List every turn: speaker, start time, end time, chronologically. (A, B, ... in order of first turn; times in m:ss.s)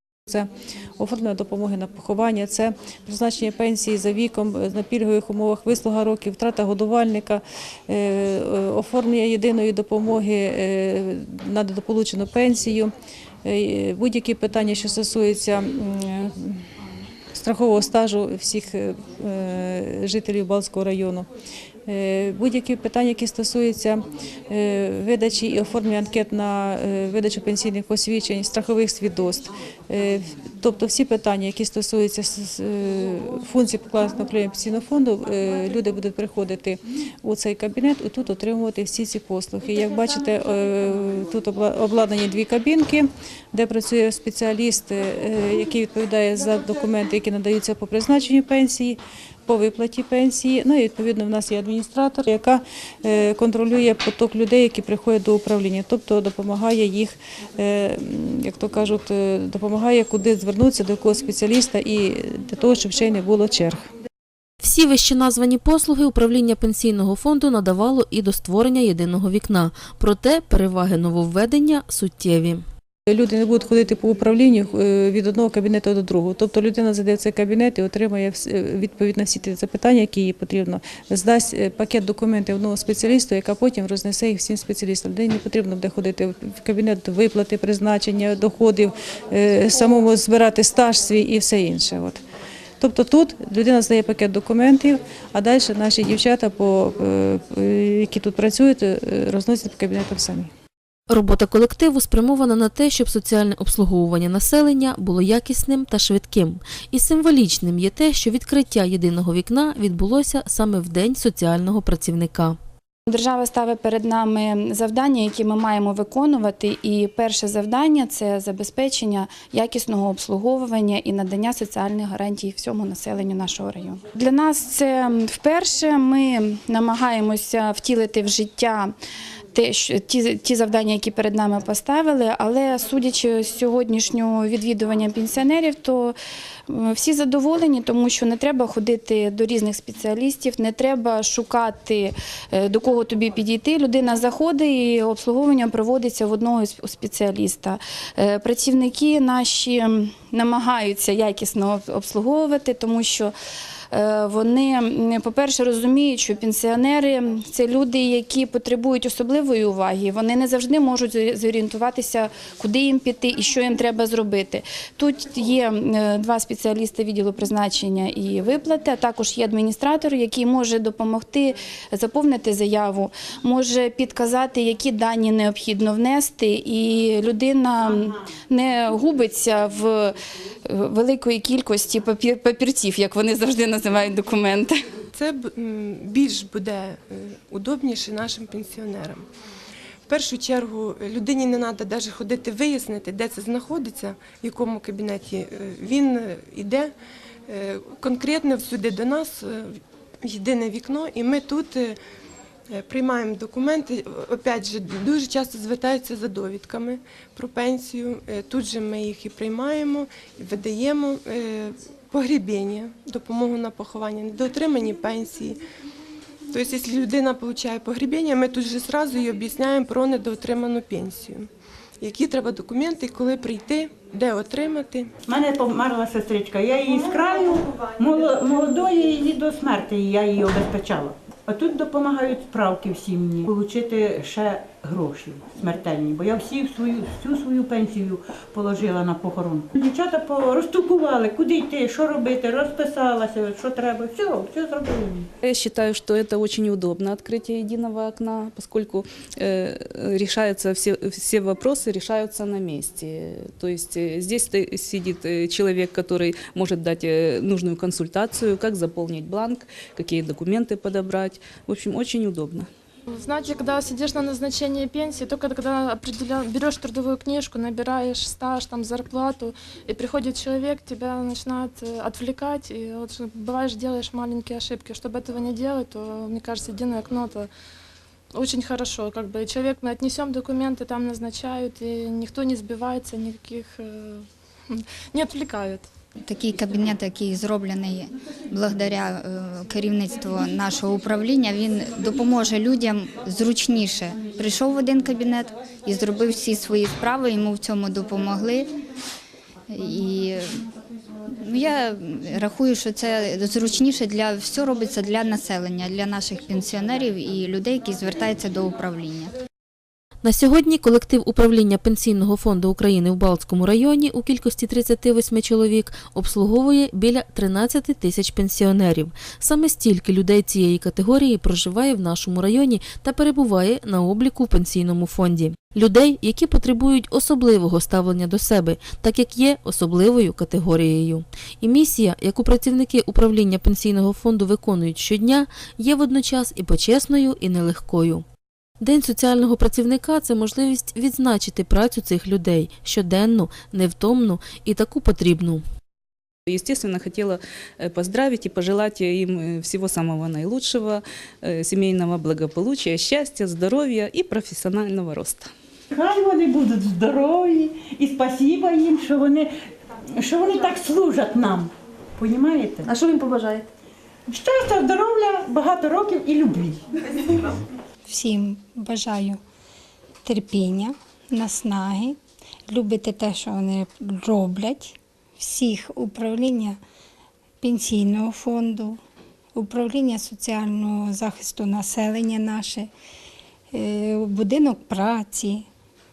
0:00.3-0:12.9 A
0:13.4-0:16.6 A
0:17.3-0:21.3 A
0:21.8-1:03.8 A
1:04.6-1:12.6 B
1:13.1-1:32.2 A
1:32.8-1:40.5 A
1:41.1-1:52.6 B
1:53.1-2:08.9 C
2:09.5-2:16.1 C
2:16.7-2:33.3 C
2:33.9-3:00.1 C
3:00.6-3:04.8 C
3:05.1-3:09.2 D
3:10.1-3:16.9 D
3:17.5-3:22.0 D
3:22.7-3:35.6 D
3:36.5-3:41.5 D
3:42.0-3:45.1 D
3:45.2-4:05.3 E
4:05.4-4:22.7 F
4:23.1-4:37.5 G
4:38.3-4:45.8 G
4:46.2-4:58.7 H
4:59.7-5:00.6 H
5:01.4-5:09.3 H
5:10.2-5:38.2 B
5:38.8-5:45.6 B
5:46.5-5:55.5 F
5:55.9-5:59.5 E
6:00.1-6:02.9 E
6:04.3-6:06.8 E
6:08.1-6:09.4 I
6:10.2-6:12.2 I
6:12.7-6:16.8 I
6:17.6-6:19.0 I
6:19.5-6:22.9 I
6:23.7-6:25.6 I